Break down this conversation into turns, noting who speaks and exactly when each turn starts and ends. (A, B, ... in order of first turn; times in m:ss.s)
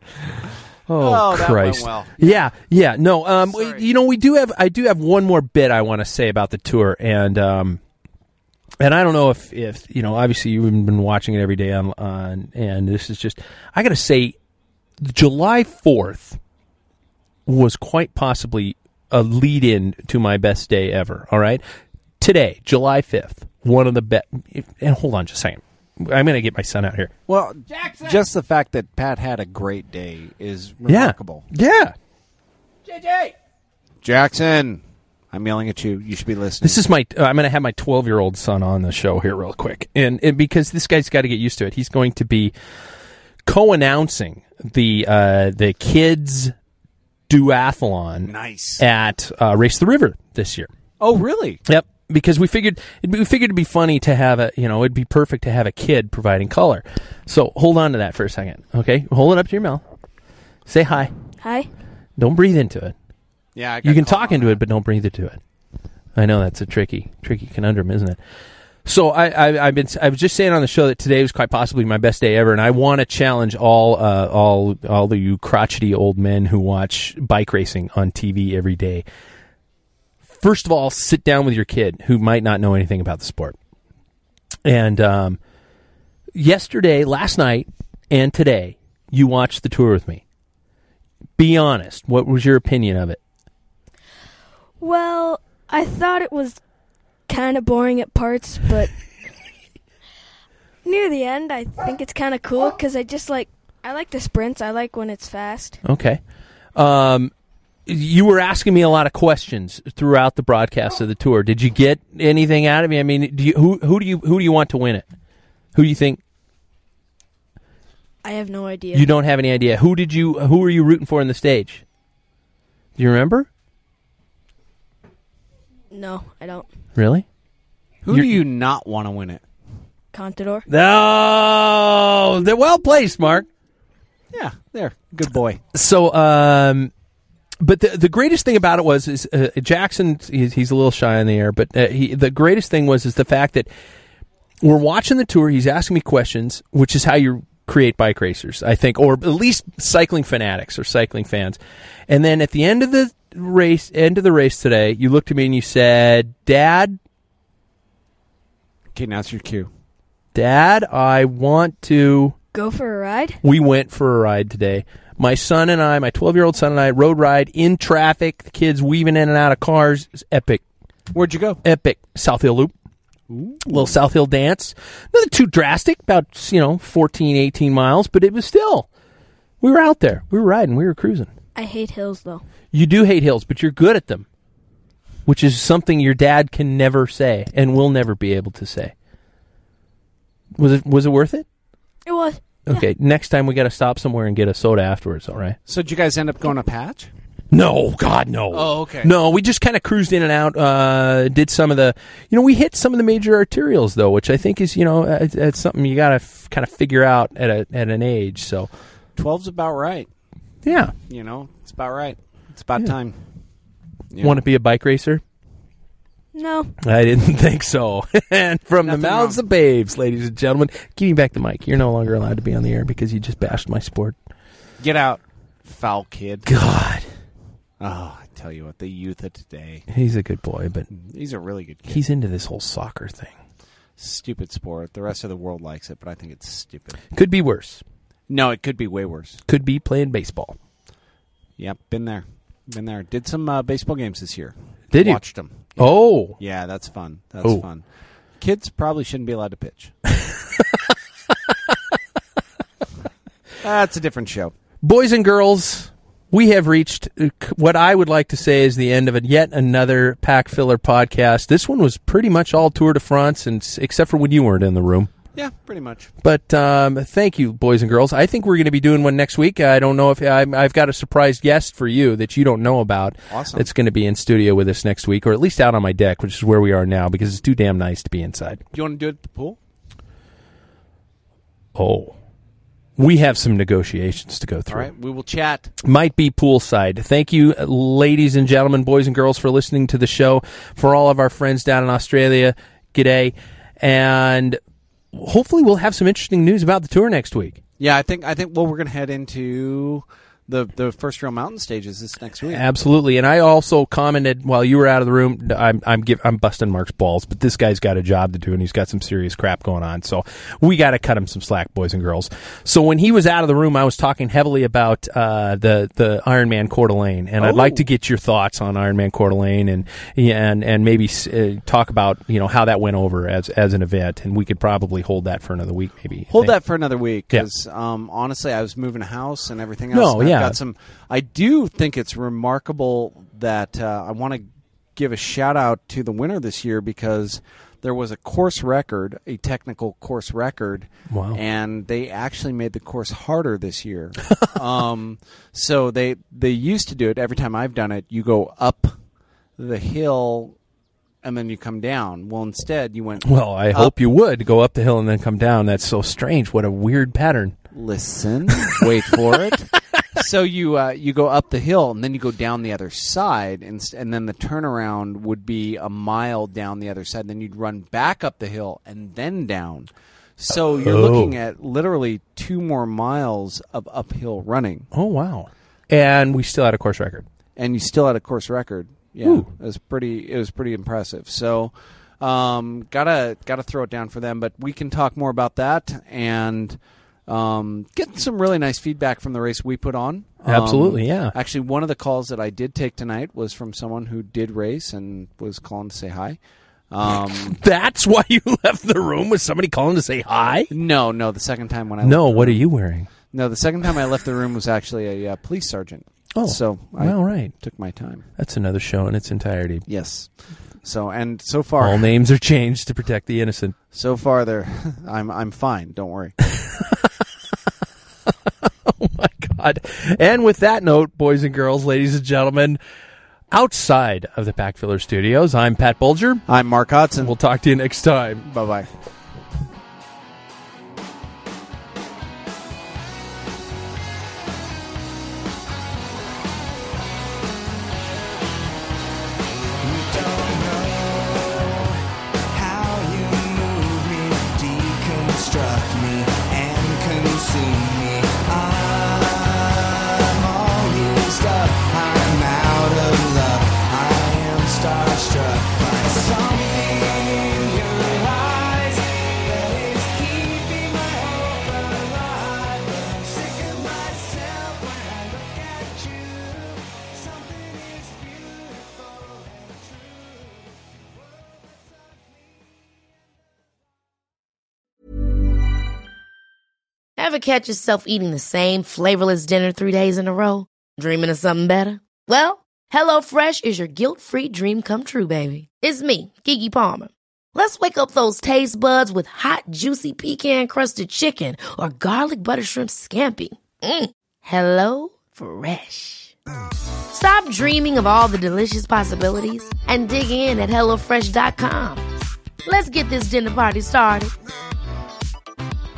0:00.9-0:07.8 A
0:01.0-0:02.6 B
0:03.4-0:03.8 B
0:08.8-0:14.4 A
0:15.0-0:16.4 A
0:17.4-0:21.6 A
0:22.2-0:27.1 A
0:27.3-0:31.4 B
0:27.8-0:28.1 A
0:30.9-0:31.9 A
0:32.9-0:33.3 A
0:34.0-0:34.8 B
0:35.3-0:36.8 B
0:36.6-0:42.5 A
0:43.4-0:46.5 A
0:47.3-0:50.7 A
0:48.3-0:48.8 B
0:51.0-0:51.6 B
0:51.7-0:59.8 A
1:00.6-1:01.1 A
1:01.4-1:01.7 C
1:02.2-1:02.9 A
1:03.5-1:04.6 B
1:03.8-1:05.4 A
1:06.1-1:08.2 A
1:08.8-1:19.0 A
1:20.2-1:23.6 A
1:24.6-1:25.4 A
1:26.3-1:30.2 A
1:31.4-1:33.2 A
1:34.8-1:36.6 C
1:37.3-1:38.9 C
1:40.8-1:45.8 C
1:45.8-1:46.2 A
1:46.7-1:47.3 A
1:47.8-1:55.1 A
1:55.7-1:56.2 A
1:58.2-1:59.1 C
1:58.9-2:01.8 A
2:03.0-2:03.5 A
2:05.9-2:06.7 C
2:07.0-2:07.2 A
2:08.0-2:09.4 B
2:08.1-2:08.4 A
2:10.1-2:10.6 C
2:10.7-2:13.5 A
2:14.3-2:15.6 B
2:15.7-2:16.9 A
2:17.6-2:23.7 A
2:24.6-2:37.0 A
2:38.9-2:39.7 B
2:40.3-2:42.4 A
2:42.5-2:43.4 C
2:43.4-2:50.6 A
2:51.1-2:51.6 B
2:51.6-2:52.7 A
2:53.3-2:54.0 B
2:53.7-2:58.9 A
2:59.6-3:01.3 A
3:01.6-3:02.4 C
3:02.7-3:04.3 A
3:05.2-3:08.9 A
3:10.5-3:11.4 A
3:12.0-3:12.8 C
3:12.7-3:15.6 A
3:15.7-3:17.1 B
3:17.5-3:28.7 A
3:18.5-3:19.1 B
3:29.2-3:30.1 B
3:30.6-3:30.9 A
3:31.1-3:33.2 B
3:34.1-3:34.4 B
3:34.2-3:35.2 A
3:36.3-3:36.7 C
3:36.8-3:44.2 A
3:38.8-3:39.4 B
3:44.8-3:46.6 B
3:46.4-3:47.1 A
3:47.8-3:49.8 B
3:49.9-3:50.9 A
3:50.9-3:52.0 B
3:51.9-3:53.3 A
3:54.0-3:57.0 B
3:57.1-3:57.8 A
3:58.3-3:59.4 B
3:59.5-4:00.6 A
4:01.6-4:07.8 B
4:04.9-4:05.2 A
4:05.8-4:06.4 A
4:08.4-4:09.9 B
4:13.6-4:14.5 B
4:14.8-4:25.1 A
4:25.3-4:26.1 B
4:26.2-4:38.6 A
4:33.3-4:33.7 B
4:38.7-4:39.6 B
4:41.7-4:42.2 A
4:43.0-4:44.9 A
4:44.7-4:45.7 B
4:45.8-4:54.6 A
4:55.1-4:57.6 A
4:57.8-5:02.6 B
5:02.5-5:26.5 A
5:17.4-5:17.8 B
5:26.3-5:48.9 B
5:29.9-5:30.6 A
5:41.1-5:41.4 A
5:49.6-5:50.6 B
5:51.2-5:53.9 B
5:53.2-5:57.6 A
5:57.7-6:14.9 B
6:10.8-6:11.4 A
6:14.9-6:17.2 A
6:17.6-6:36.4 B
6:30.4-6:31.3 A
6:36.9-6:37.6 B
6:37.4-6:40.7 A
6:40.7-6:42.6 B
6:42.0-6:43.1 A
6:43.3-6:48.2 B
6:46.3-6:47.5 A
6:48.4-6:49.8 A
6:49.9-6:50.3 B
6:50.8-6:52.1 B
6:51.8-6:53.8 A
6:53.9-6:56.4 B
6:56.6-6:57.1 A
6:58.6-7:02.8 A
7:03.5-7:06.4 A
7:06.5-7:07.3 B
7:07.2-7:08.5 A
7:08.4-7:08.9 B
7:19.8-7:22.0 D
7:22.5-7:50.7 D
7:57.2-8:16.3 E
8:17.1-8:22.0 E
8:22.6-8:24.3 E